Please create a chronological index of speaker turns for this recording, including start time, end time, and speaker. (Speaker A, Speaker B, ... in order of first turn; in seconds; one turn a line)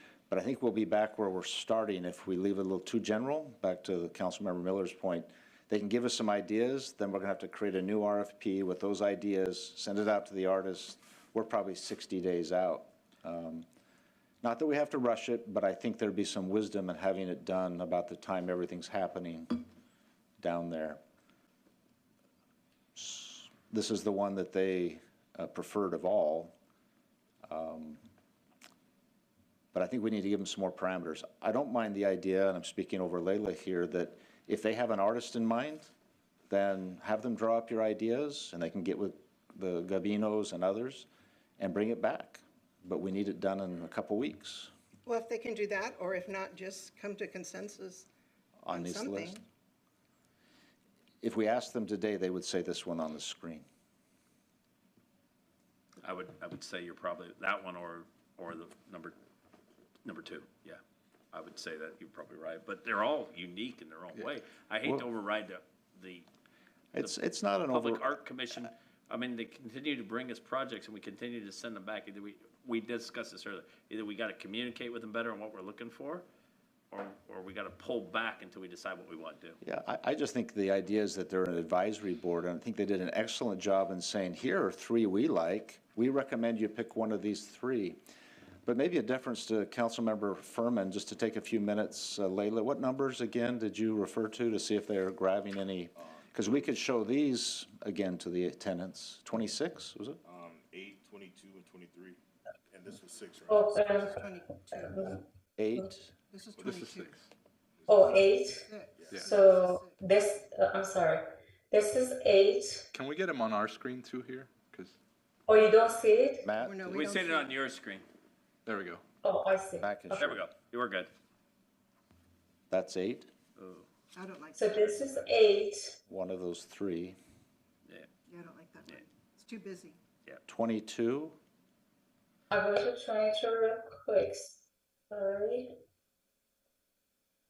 Speaker A: 0.3-13.7
Speaker A: 14.4-19.7
Speaker A: 20.4-21.0
Speaker A: 22.9-26.5
Speaker A: 27.4-28.0
Speaker A: 29.7-35.9
Speaker A: 36.5-41.1
Speaker A: 41.6-44.7
Speaker B: 45.0-48.1
Speaker A: 48.6-49.4
Speaker B: 48.7-49.4
Speaker A: 51.2-53.6
Speaker C: 56.0-59.2
Speaker C: 60.0-60.8
Speaker C: 61.3-66.3
Speaker A: 66.9-68.1
Speaker C: 67.7-76.3
Speaker C: 76.9-79.6
Speaker A: 79.6-88.0
Speaker A: 88.7-100.2
Speaker D: 100.2-104.2
Speaker E: 103.5-104.2
Speaker B: 104.1-105.2
Speaker E: 104.7-105.2
Speaker A: 105.6-106.1
Speaker B: 106.3-107.2
Speaker F: 106.6-107.2
Speaker D: 107.8-109.3
Speaker E: 107.9-108.7
Speaker B: 108.2-110.0
Speaker F: 109.1-109.3
Speaker E: 109.2-112.9
Speaker F: 112.9-115.0
Speaker E: 115.5-116.5
Speaker A: 116.4-117.1
Speaker B: 116.5-117.5
Speaker C: 116.8-118.0
Speaker F: 118.6-119.0
Speaker E: 119.2-120.3
Speaker A: 119.8-120.5
Speaker C: 120.1-121.1
Speaker A: 122.7-123.3
Speaker C: 123.6-123.9
Speaker B: 124.1-125.3
Speaker E: 124.5-126.0
Speaker A: 126.1-127.2
Speaker B: 128.3-130.0
Speaker A: 130.5-131.4
Speaker E: 132.5-135.7